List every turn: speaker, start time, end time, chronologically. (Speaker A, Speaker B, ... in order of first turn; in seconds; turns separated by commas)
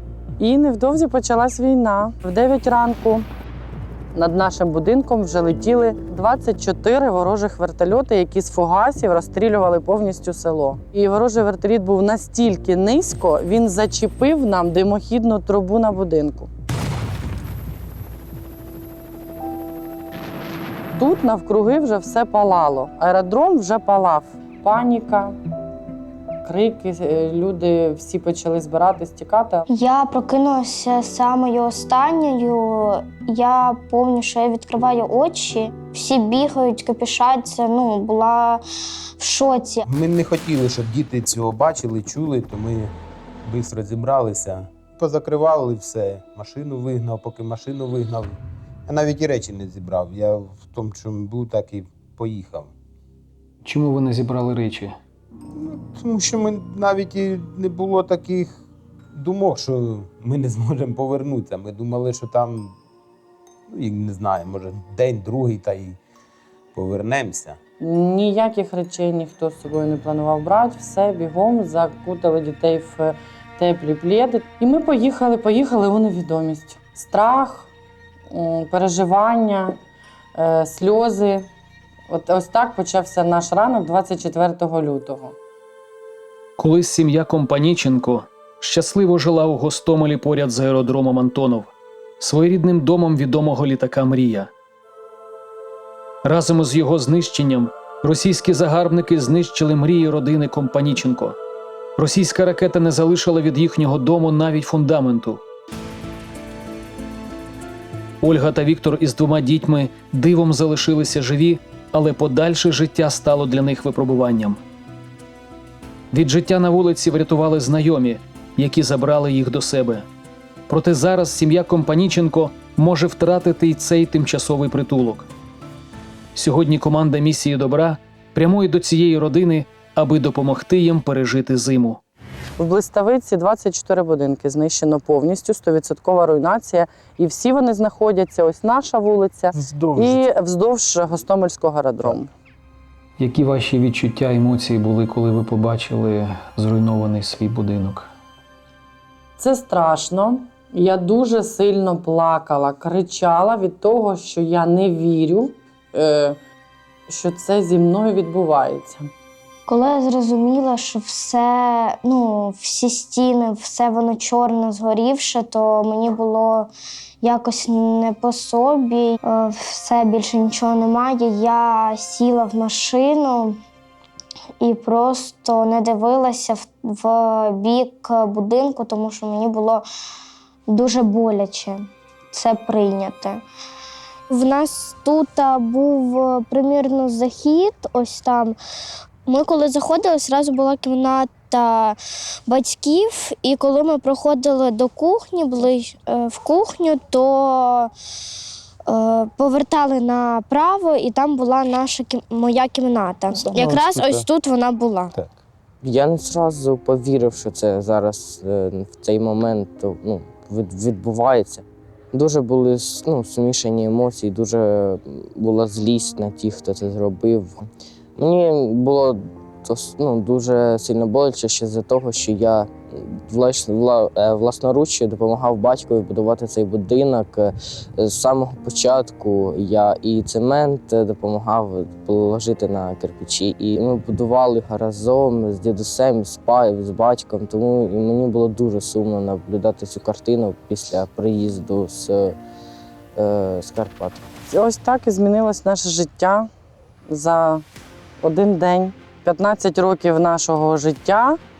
Speaker A: 0.4-3.2, Speaker A: 4.1-16.5, Speaker A: 21.0-25.4, Speaker A: 26.4-29.6, Speaker B: 29.7-38.6, Speaker B: 39.2-39.9, Speaker C: 39.9-42.9, Speaker C: 43.4-52.7, Speaker D: 53.6-54.9, Speaker C: 55.6-58.6, Speaker C: 59.1-62.8, Speaker C: 63.7-66.0, Speaker C: 66.7-67.6, Speaker A: 67.8-77.7, Speaker A: 78.3-79.8, Speaker A: 80.3-81.5, Speaker A: 82.1-85.3, Speaker D: 86.6-94.5, Speaker D: 96.2-101.4, Speaker D: 102.0-105.4, Speaker D: 108.2-114.6, Speaker D: 116.1-120.1, Speaker D: 120.7-125.3, Speaker D: 126.3-132.0, Speaker A: 132.6-142.3, Speaker C: 139.6-140.2, Speaker D: 143.2-148.1, Speaker A: 149.4-156.4, Speaker A: 157.1-159.1, Speaker B: 159.7-166.7, Speaker B: 167.2-173.6, Speaker B: 174.6-179.8, Speaker B: 180.7-183.4, Speaker B: 184.3-188.6, Speaker B: 189.2-197.9, Speaker B: 198.9-205.1, Speaker C: 203.3-204.2, Speaker E: 205.8-217.6, Speaker E: 218.2-242.3, Speaker E: 243.2-244.2, Speaker A: 244.5-246.5, Speaker A: 247.1-247.6, Speaker A: 248.2-251.4